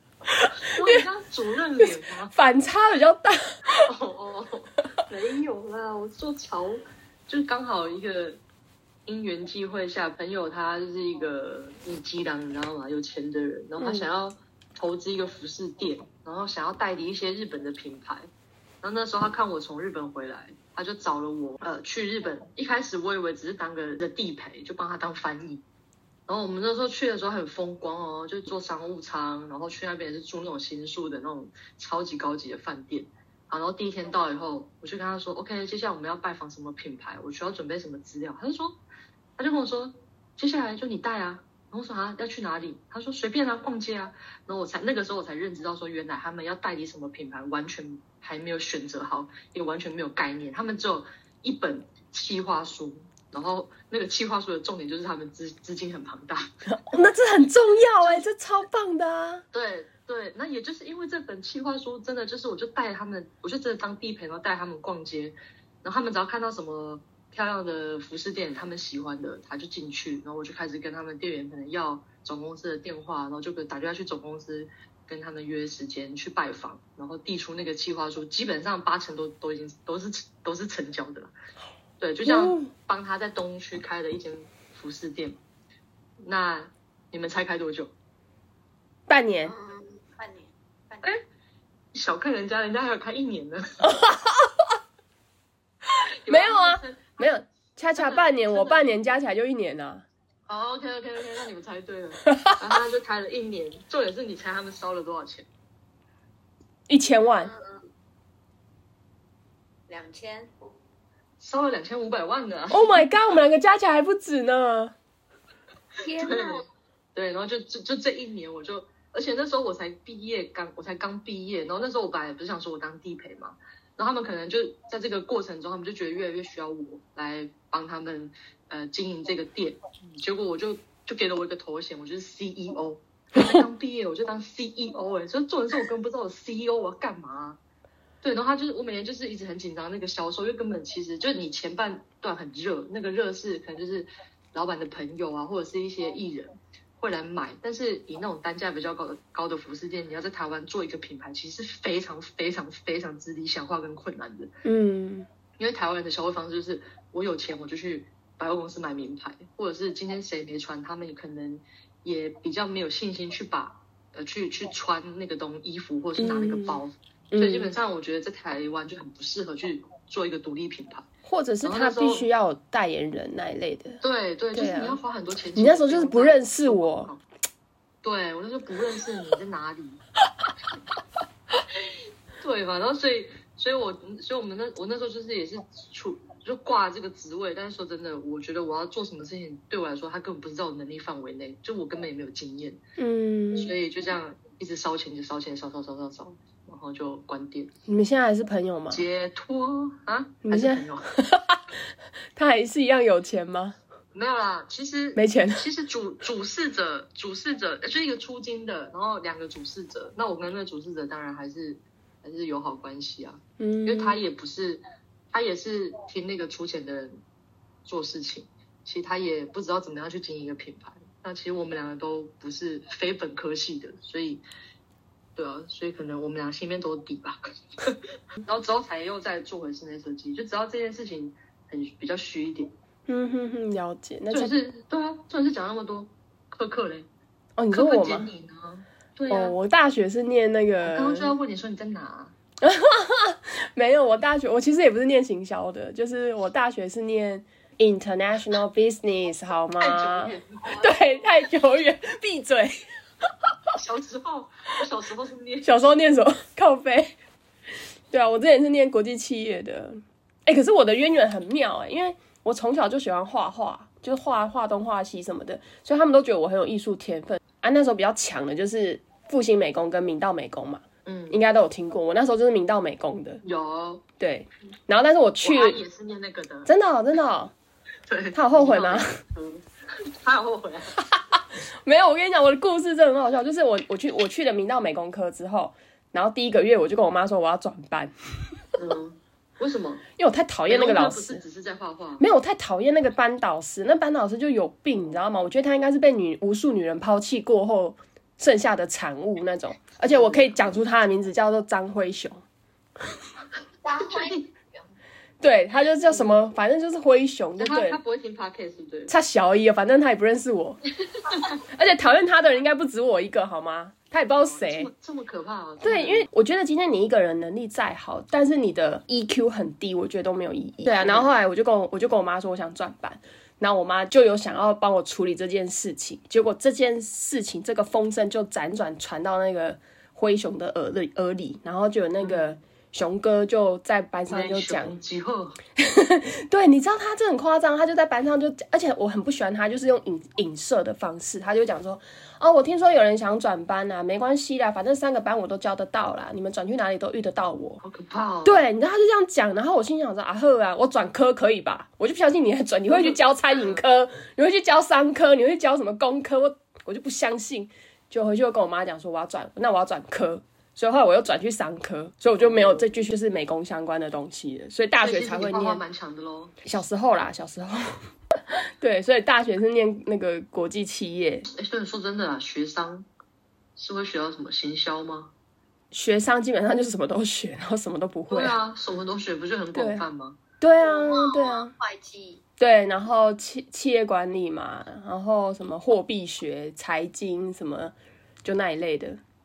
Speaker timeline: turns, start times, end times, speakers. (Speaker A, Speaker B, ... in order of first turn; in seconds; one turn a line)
Speaker A: 0.3-1.0
Speaker B: 0.6-2.3
Speaker A: 1.8-3.8
Speaker B: 3.8-8.4
Speaker B: 9.1-18.3
Speaker A: 13.8-14.1
Speaker B: 18.8-25.6
Speaker B: 26.3-38.8
Speaker B: 39.4-56.5
Speaker A: 56.7-59.4
Speaker B: 59.5-81.3
Speaker B: 82.0-85.4
Speaker A: 82.2-82.7
Speaker B: 86.2-87.9
Speaker A: 89.1-89.5
Speaker C: 89.5-91.1
Speaker B: 91.9-93.8
Speaker A: 93.8-94.5
Speaker B: 96.2-97.3
Speaker A: 96.3-100.0
Speaker B: 98.0-99.1
Speaker B: 100.5-105.5
Speaker A: 102.3-102.6
Speaker A: 106.9-107.5
Speaker C: 107.4-107.8
Speaker C: 109.9-110.5
Speaker B: 111.4-113.1
Speaker A: 112.7-114.9
Speaker C: 116.0-116.7
Speaker B: 116.1-116.6
Speaker B: 117.1-137.6
Speaker B: 138.2-154.5
Speaker A: 154.6-155.3
Speaker B: 155.6-171.1
Speaker A: 166.2-167.7
Speaker A: 171.2-174.0
Speaker B: 171.6-172.3
Speaker B: 174.0-177.2
Speaker A: 174.5-175.0
Speaker A: 175.5-177.1
Speaker B: 178.0-180.0
Speaker B: 182.4-192.8
Speaker A: 193.0-193.7
Speaker B: 193.5-197.7
Speaker A: 197.9-199.0
Speaker B: 198.9-201.1
Speaker A: 200.4-201.6
Speaker A: 202.3-203.8
Speaker B: 204.1-217.2
Speaker A: 205.2-205.6
Speaker A: 213.6-214.2
Speaker B: 217.8-224.4
Speaker B: 225.3-232.7
Speaker A: 233.1-234.5
Speaker B: 234.3-237.1
Speaker A: 237.6-238.3
Speaker B: 237.7-239.5
Speaker A: 239.3-241.3
Speaker B: 240.8-242.3
Speaker A: 242.6-252.8
Speaker B: 249.8-250.9
Speaker B: 253.7-256.1
Speaker A: 255.6-257.1
Speaker A: 258.1-273.4
Speaker B: 271.0-271.4
Speaker B: 273.4-274.0
Speaker A: 274.2-275.8
Speaker B: 275.4-276.7
Speaker A: 276.6-277.5
Speaker B: 278.1-281.0
Speaker A: 278.3-279.2
Speaker A: 281.8-288.1
Speaker B: 288.8-290.0
Speaker A: 290.2-291.4
Speaker B: 290.7-292.2
Speaker A: 292.2-302.4
Speaker B: 300.0-300.8
Speaker C: 303.8-304.8
Speaker B: 304.1-304.4
Speaker A: 305.4-308.0
Speaker B: 306.1-306.4
Speaker B: 307.6-309.1
Speaker A: 309.1-310.8
Speaker A: 311.7-314.9
Speaker B: 314.3-316.3
Speaker A: 315.8-334.9
Speaker B: 320.8-321.3
Speaker B: 332.2-332.5
Speaker B: 334.3-335.6
Speaker A: 335.8-347.8
Speaker B: 347.8-348.7
Speaker A: 348.4-365.8
Speaker B: 352.9-353.8
Speaker B: 362.4-362.9
Speaker B: 365.0-366.6
Speaker A: 366.6-367.8
Speaker A: 368.8-371.5
Speaker B: 371.5-373.1
Speaker B: 373.8-375.3
Speaker A: 375.9-378.5
Speaker B: 378.3-380.4
Speaker A: 379.7-380.1
Speaker A: 380.6-381.7
Speaker C: 380.8-382.4
Speaker A: 382.6-389.2